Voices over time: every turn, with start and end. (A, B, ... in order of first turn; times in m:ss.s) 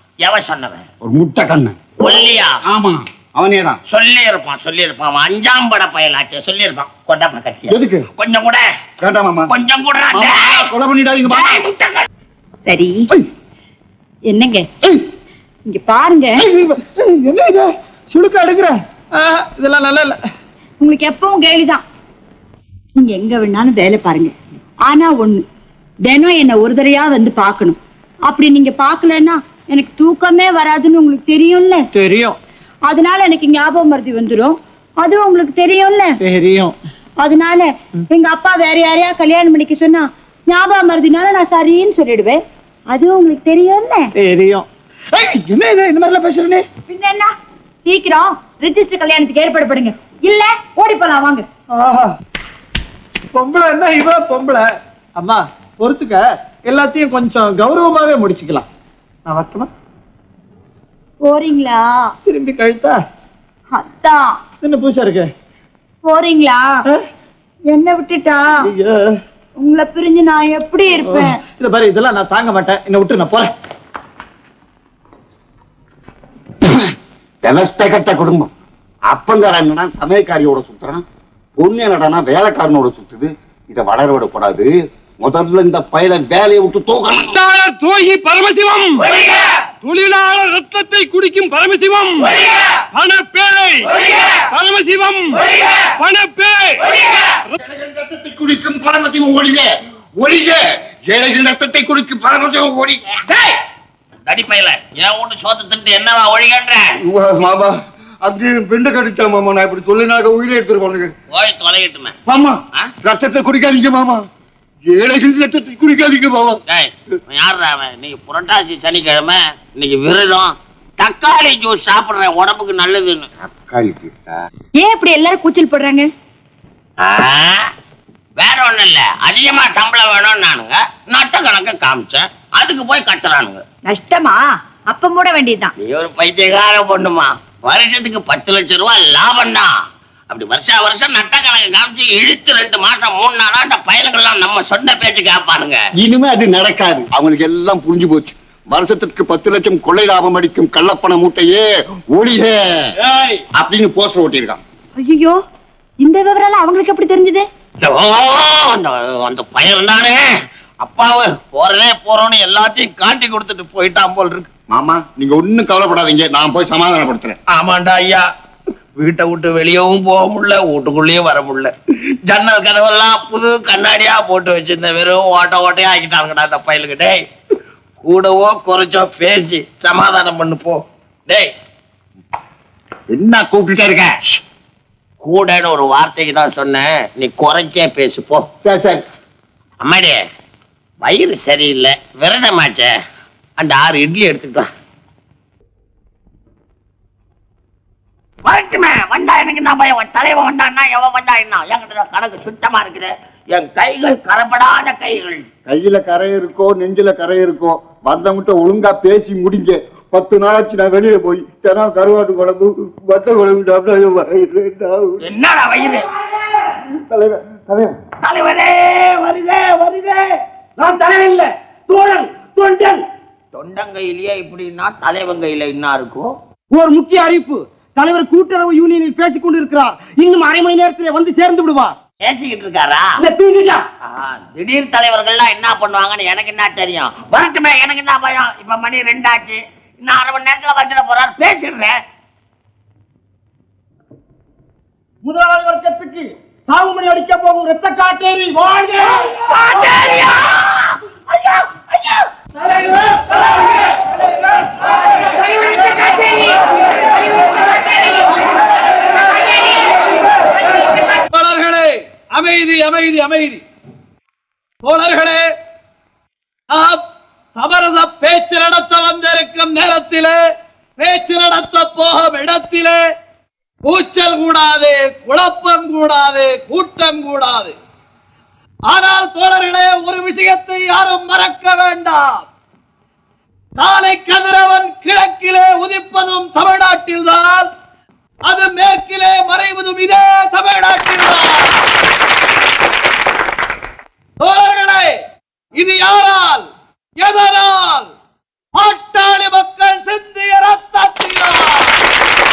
0:00.2-0:00.8 A
0:01.0-0:01.8 B
0:02.0-0:02.5 A
0:02.6-0:03.8 B
0:03.9-0:08.6 A
0:07.7-0:08.0 B
0:09.0-0:09.5 B
0:09.5-0:10.7 A
0:10.1-0:11.7 B
0:11.3-0:12.0 A
0:12.6-0:13.0 C
0:14.3-0:14.6 C
0:15.7-0:16.4 C
0:16.4-0:20.2 D
0:20.8-0:21.8 C
0:23.0-0:24.3 C
0:24.8-0:25.4 C
0:26.0-0:31.8 C
0:31.9-0:32.4 D
0:32.9-0:36.1 C
0:36.2-0:36.7 D
0:37.2-0:44.1 C
0:44.2-0:46.6 D
0:46.9-0:47.3 C
0:47.8-0:51.5 C
0:51.7-0:52.1 D
0:53.3-0:54.7 D
0:55.2-0:58.6 D
0:59.2-0:59.7 D
1:01.2-1:02.1 C
1:02.3-1:03.0 D
1:03.7-1:04.4 C
1:04.6-1:05.3 D
1:06.0-1:06.7 C
1:07.7-1:08.5 C
1:08.7-1:09.1 D
1:09.6-1:11.4 C
1:11.0-1:13.5 D
1:17.4-1:18.5 B
1:19.1-1:21.0 B
1:21.6-1:24.7 B
1:25.2-1:27.3 B
1:27.3-1:28.9 E
1:29.0-1:29.3 A
1:29.8-1:32.2 E
1:32.9-1:33.9 E
1:34.5-1:35.3 E
1:36.0-1:36.7 E
1:37.6-1:43.1 B
1:43.2-1:43.6 A
1:44.2-1:46.9 A
1:47.0-1:51.1 B
1:51.3-1:52.1 A
1:52.2-1:54.2 B
1:54.9-1:56.6 B
1:56.7-2:03.3 A
2:03.4-2:04.3 B
2:04.8-2:06.1 C
2:07.0-2:07.6 A
2:08.4-2:13.6 A
2:13.8-2:15.7 C
2:15.8-2:19.7 A
2:20.3-2:25.8 A
2:26.0-2:32.9 B
2:33.6-2:34.6 B
2:35.0-2:35.4 C
2:36.0-2:37.4 C
2:37.8-2:40.3 A
2:40.8-2:44.5 A
2:44.7-2:47.4 B
2:47.5-2:48.2 A
2:49.0-2:51.7 A
2:52.3-2:57.2 A
2:58.0-3:01.5 A
3:03.1-3:04.4 B
3:05.2-3:08.4 A
3:08.6-3:09.0 B
3:09.8-3:10.2 A
3:11.0-3:12.9 A
3:13.6-3:14.7 A
3:18.4-3:25.4 A
3:25.7-3:35.3 B
3:35.2-3:36.0 A
3:37.1-3:37.9 B
3:38.2-3:40.3 A
3:40.8-3:41.5 F
3:41.1-3:43.0 A
3:43.5-3:46.3 A
3:46.7-3:52.0 F
3:52.2-3:53.1 A
3:53.2-3:53.8 F
3:54.0-4:01.9 A
4:05.2-4:09.2 F
4:09.4-4:10.8 A
4:11.5-4:12.2 A
4:21.2-4:23.6 D
4:24.8-4:25.5 D
4:26.7-4:27.0 D
4:27.5-4:30.4 D
4:31.0-4:33.0 D
4:33.8-4:37.7 D
4:38.9-4:42.4 D
4:43.8-4:47.7 D
4:48.4-4:51.9 D
4:54.4-4:55.2 D
4:55.8-4:58.1 D
4:58.7-5:02.0 D